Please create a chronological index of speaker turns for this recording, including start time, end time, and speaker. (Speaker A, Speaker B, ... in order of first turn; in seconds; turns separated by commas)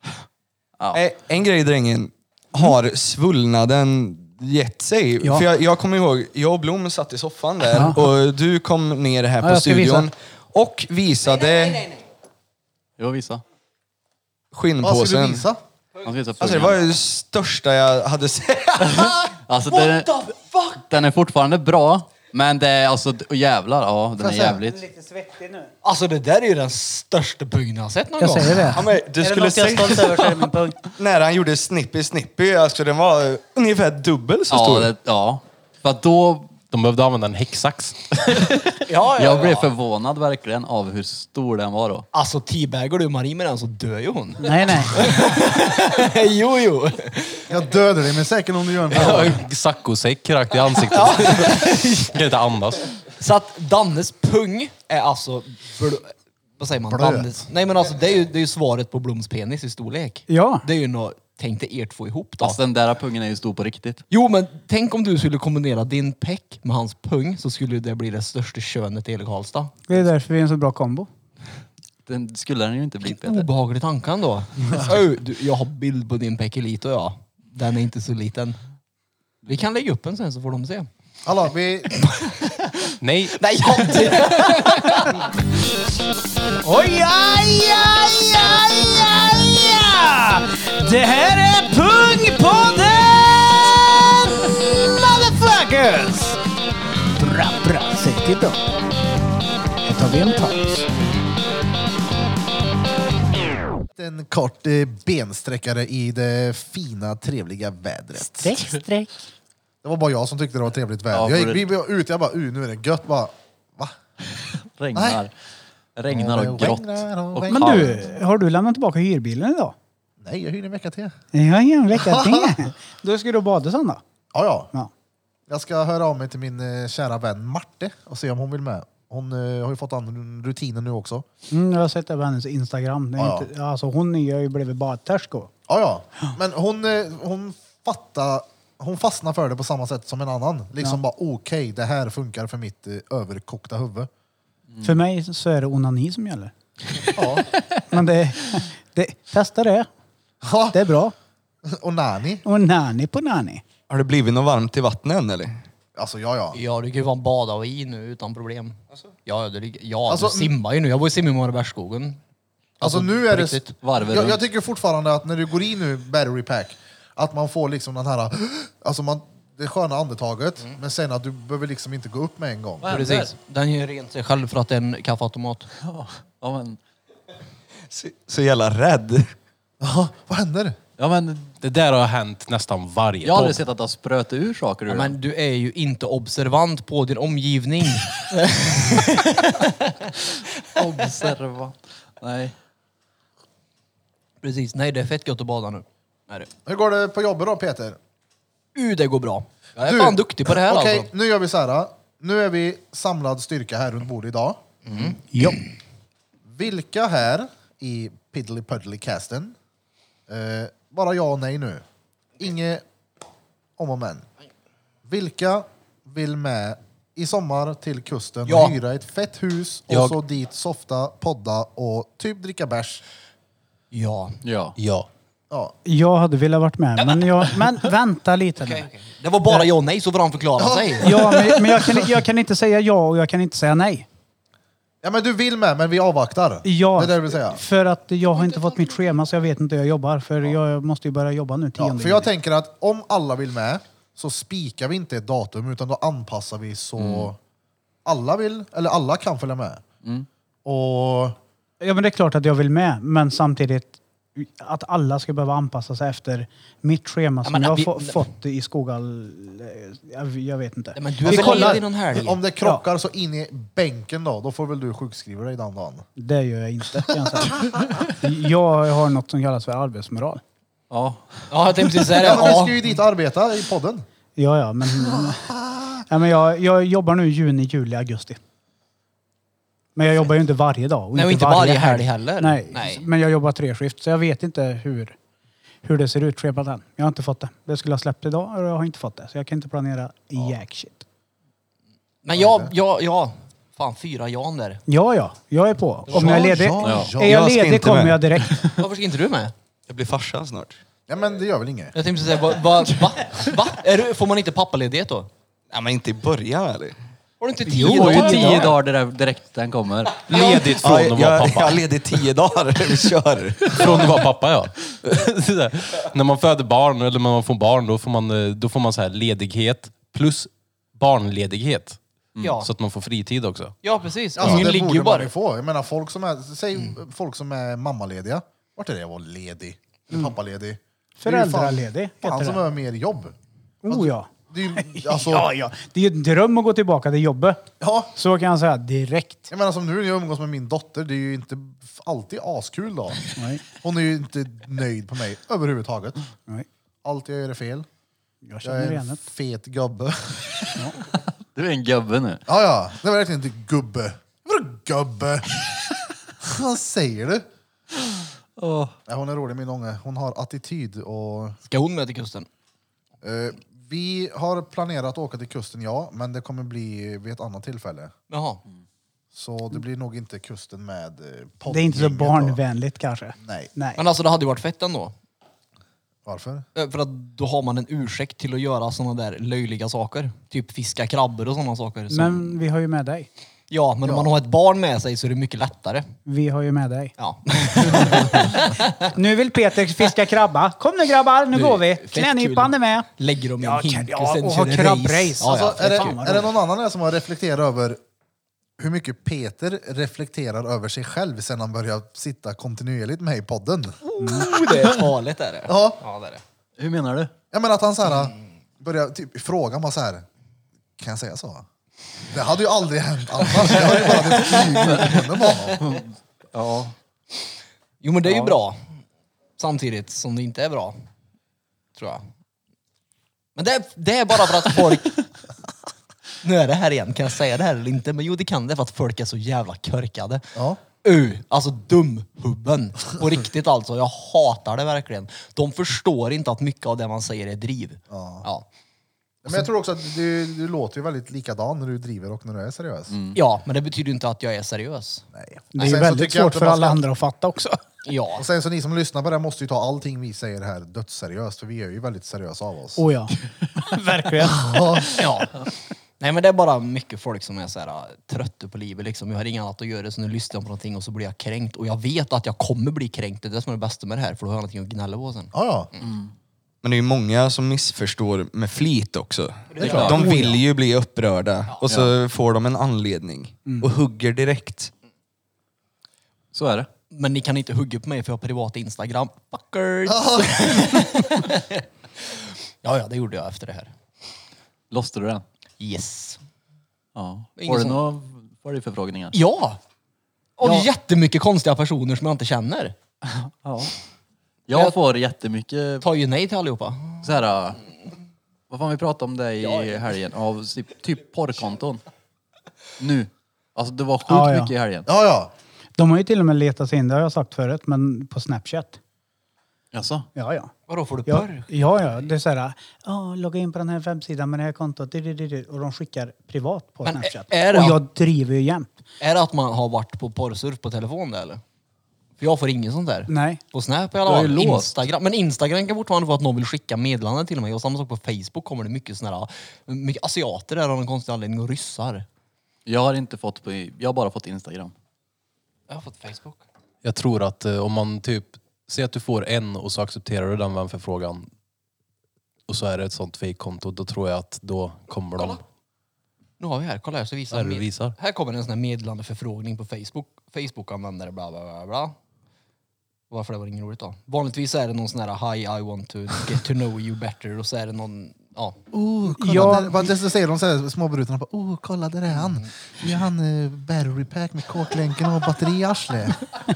Speaker A: 0.9-11.9, Speaker B: 7.7-8.1, Speaker B: 9.4-10.1, Speaker C: 13.0-13.4, Speaker A: 14.5-15.4, Speaker D: 14.8-15.6, Speaker C: 16.0-16.8, Speaker A: 16.4-19.3, Speaker C: 18.8-20.2, Speaker E: 19.7-20.8, Speaker C: 20.8-24.8, Speaker D: 24.2-24.6, Speaker B: 24.6-25.7, Speaker E: 25.8-28.9, Speaker B: 28.2-30.8, Speaker A: 28.7-34.9, Speaker C: 34.5-36.6, Speaker F: 36.6-38.5, Speaker C: 38.4-42.1, Speaker E: 38.9-39.7, Speaker E: 42.1-47.5, Speaker B: 44.4-45.0, Speaker D: 47.5-49.4, Speaker F: 48.9-52.9, Speaker E: 49.0-49.3, Speaker E: 50.7-52.1, Speaker E: 53.2-62.6, Speaker D: 56.9-57.3, Speaker B: 60.3-60.6, Speaker C: 62.4-64.0, Speaker E: 64.1-69.8, Speaker B: 69.9-71.1, Speaker C: 72.1-73.5, Speaker E: 73.0-78.6, Speaker E: 79.4-80.9, Speaker D: 81.2-81.9, Speaker E: 81.9-85.2, Speaker F: 83.0-83.3, Speaker B: 86.6-96.4, Speaker B: 97.2-98.6, Speaker B: 99.9-100.9, Speaker D: 104.0-108.6, Speaker B: 108.3-109.1, Speaker D: 109.8-114.0, Speaker C: 111.1-111.7, Speaker C: 114.8-115.3, Speaker D: 115.0-115.2, Speaker C: 116.0-118.0, Speaker D: 116.1-118.1, Speaker B: 117.5-119.8, Speaker D: 120.2-121.2, Speaker B: 121.3-124.0, Speaker D: 121.9-122.6, Speaker D: 124.3-124.7, Speaker D: 125.5-131.2, Speaker B: 131.5-135.5, Speaker D: 133.2-133.5, Speaker D: 135.7-144.1, Speaker C: 144.7-145.0, Speaker B: 144.8-146.5, Speaker D: 147.2-147.5, Speaker B: 147.9-149.9, Speaker D: 150.4-150.8, Speaker B: 150.7-151.1, Speaker D: 151.7-152.4, Speaker B: 152.4-153.6, Speaker A: 153.9-155.6, Speaker D: 156.0-156.6, Speaker E: 156.5-162.2, Speaker D: 160.1-160.5, Speaker E: 162.8-163.8, Speaker D: 162.8-172.9, Speaker C: 163.8-164.4, Speaker C: 172.8-173.3, Speaker E: 172.9-175.7, Speaker C: 175.8-176.8, Speaker A: 177.9-179.3, Speaker D: 179.8-180.8, Speaker C: 181.0-181.6, Speaker F: 181.6-183.6, Speaker C: 183.2-185.2, Speaker E: 184.9-190.1, Speaker C: 190.8-192.6, Speaker E: 190.8-191.3, Speaker E: 194.4-196.5, Speaker D: 196.7-198.0, Speaker E: 198.8-201.1, Speaker D: 199.8-204.6, Speaker E: 204.9-205.2, Speaker B: 205.3-205.6, Speaker D: 206.5-209.6, Speaker D: 210.3-211.8, Speaker D: 212.4-212.8, Speaker D: 213.8-214.2, Speaker D: 215.1-223.0, Speaker E: 218.5-218.8, Speaker F: 219.9-220.2, Speaker E: 223.9-224.4, Speaker C: 224.4-224.8, Speaker F: 224.8-225.1, Speaker B: 225.8-228.9, Speaker E: 228.6-231.3, Speaker D: 230.6-231.4, Speaker B: 231.0-234.1, Speaker D: 235.0-237.6, Speaker B: 236.6-242.3, Speaker D: 241.8-247.4, Speaker C: 247.0-247.3, Speaker D: 248.1-249.8, Speaker D: 250.7-251.4, Speaker B: 251.8-261.8, Speaker E: 257.4-258.2, Speaker E: 260.9-262.4, Speaker D: 261.2-266.1, Speaker B: 266.2-270.4, Speaker C: 270.9-271.5, Speaker E: 271.5-272.8, Speaker D: 272.1-274.0, Speaker B: 274.4-275.5, Speaker D: 275.2-275.9, Speaker B: 276.1-278.4, Speaker B: 280.0-285.2, Speaker E: 281.1-283.1, Speaker B: 285.8-291.1, Speaker E: 292.2-294.8, Speaker D: 292.3-292.7, Speaker B: 294.9-298.6, Speaker D: 296.1-297.5, Speaker E: 296.1-296.4, Speaker C: 296.8-297.1, Speaker A: 297.1-298.4, Speaker C: 298.5-298.8, Speaker E: 298.8-299.5, Speaker A: 299.9-300.8, Speaker D: 301.1-301.9, Speaker E: 301.9-305.3, Speaker A: 305.7-307.0, Speaker E: 307.4-308.8, Speaker B: 307.7-308.7, Speaker C: 307.8-310.4, Speaker F: 310.2-311.8, Speaker E: 310.4-310.6, Speaker A: 310.8-314.2, Speaker F: 313.7-322.0, Speaker E: 322.4-322.7, Speaker F: 322.6-323.8, Speaker E: 323.8-325.3, Speaker D: 324.4-333.4, Speaker B: 331.2-332.6, Speaker B: 333.8-339.5, Speaker D: 333.9-335.5, Speaker D: 337.8-338.1, Speaker D: 339.5-346.2, Speaker B: 343.4-343.6, Speaker D: 347.0-347.9, Speaker B: 348.4-349.2, Speaker D: 348.6-350.7, Speaker C: 351.5-352.4, Speaker D: 352.5-355.6, Speaker D: 356.4-357.5, Speaker C: 358.6-358.9, Speaker D: 359.1-361.6, Speaker E: 361.7-362.5, Speaker D: 363.2-368.1, Speaker E: 368.3-368.6, Speaker D: 369.3-372.6, Speaker B: 371.7-374.0, Speaker D: 373.4-373.7, Speaker E: 374.0-375.1, Speaker D: 376.2-376.7, Speaker E: 376.8-382.5, Speaker B: 382.1-383.3, Speaker E: 383.7-386.1, Speaker D: 384.0-384.3, Speaker B: 386.3-387.1, Speaker E: 387.2-389.1, Speaker D: 388.0-388.3, Speaker B: 389.0-393.1, Speaker E: 391.5-396.2, Speaker B: 393.6-396.5, Speaker D: 395.4-398.0, Speaker D: 398.8-404.0, Speaker E: 404.2-406.4, Speaker B: 404.2-404.5, Speaker D: 405.7-406.0, Speaker C: 406.8-407.3, Speaker D: 407.5-410.3, Speaker D: 411.0-411.7, Speaker D: 412.3-415.9, Speaker E: 413.8-415.1, Speaker C: 415.8-416.9, Speaker E: 418.0-418.8, Speaker C: 418.3-418.6, Speaker E: 419.6-420.9, Speaker E: 421.9-422.2, Speaker E: 423.6-425.2, Speaker E: 426.4-430.4, Speaker E: 431.0-438.7, Speaker D: 438.1-438.5, Speaker D: 439.4-443.1, Speaker C: 443.1-443.4, Speaker E: 443.4-445.2, Speaker D: 445.3-447.0, Speaker B: 445.8-447.8, Speaker E: 448.1-448.5, Speaker D: 448.4-453.0, Speaker B: 453.0-454.8, Speaker D: 454.4-455.2, Speaker E: 455.1-455.6, Speaker E: 456.2-465.5, Speaker D: 465.5-465.9, Speaker C: 466.0-466.3, Speaker A: 466.8-474.9, Speaker E: 469.7-470.6, Speaker C: 469.8-470.2, Speaker B: 470.1-470.6, Speaker C: 471.9-472.1, Speaker C: 476.5-476.9, Speaker E: 477.1-483.9, Speaker D: 480.1-481.1, Speaker C: 484.9-485.4, Speaker E: 485.8-486.4, Speaker C: 487.1-489.4, Speaker E: 487.6-488.0, Speaker E: 489.3-489.8, Speaker E: 490.6-493.0, Speaker C: 490.6-490.9, Speaker C: 493.2-493.9, Speaker C: 494.7-496.1, Speaker E: 496.0-497.2, Speaker C: 497.2-497.8, Speaker C: 498.7-502.0, Speaker C: 503.0-505.1, Speaker B: 504.3-504.7, Speaker D: 505.1-505.5, Speaker B: 506.0-509.0, Speaker C: 509.9-510.3, Speaker B: 510.4-510.7, Speaker E: 510.9-511.7, Speaker B: 511.3-518.9, Speaker E: 517.0-518.0, Speaker E: 519.2-521.6, Speaker E: 522.4-532.3, Speaker B: 523.3-523.6, Speaker C: 524.2-524.9, Speaker C: 532.9-534.9, Speaker E: 535.9-536.6, Speaker F: 537.0-541.5, Speaker F: 542.7-545.6, Speaker E: 546.6-552.1, Speaker F: 547.5-548.1, Speaker E: 553.3-558.8, Speaker D: 558.9-566.4, Speaker B: 559.4-560.0, Speaker E: 562.4-562.7